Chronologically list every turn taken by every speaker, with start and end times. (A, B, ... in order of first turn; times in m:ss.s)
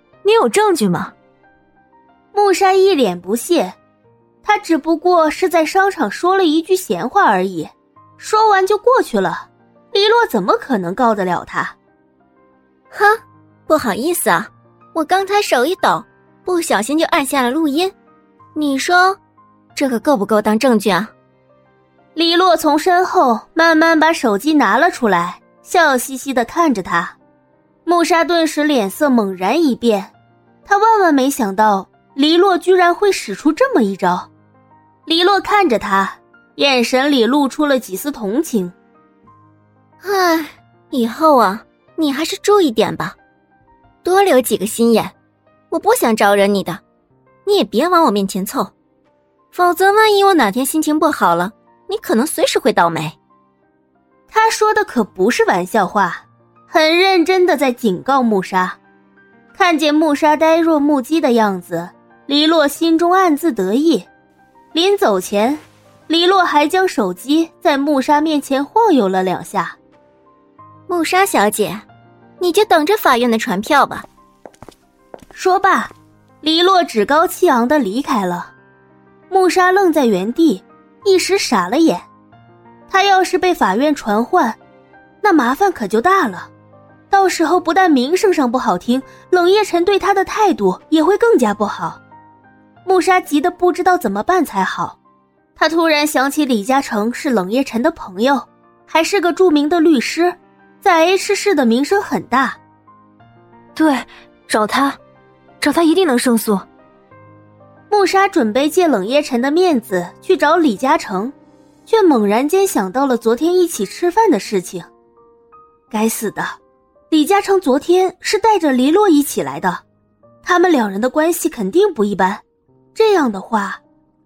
0:00.2-0:01.1 A
0:02.3-0:03.8 B
0:04.4-0:11.8 B
0:12.9-0:17.9 C
0:18.6-0:19.2 C
0:19.8-0:21.1 C
0:22.2-0:27.2 B
0:27.9-0:30.1 B
0:30.7-0:34.3 B
0:35.1-0:38.7 B
0:40.0-0:43.2 C
0:44.0-0:45.1 C
0:45.7-0:46.8 C
0:47.5-0:48.7 C
0:49.5-0:53.2 C
0:54.3-0:58.8 B
0:59.5-1:04.1 B
1:04.7-1:09.8 B
1:10.9-1:11.8 C
1:12.4-1:14.1 C
1:15.3-1:18.5 B
1:19.3-1:22.0 B
1:22.9-1:24.6 B
1:25.2-1:26.5 B
1:27.1-1:32.0 B
1:32.8-1:35.0 B
1:35.6-1:42.6 B
1:43.8-1:45.0 A
1:45.6-1:46.7 A
1:47.9-1:51.3 B
1:51.9-1:54.9 B
1:55.9-1:56.6 B
1:57.1-1:59.8 B
2:00.4-2:02.4 B
2:03.0-2:03.8 B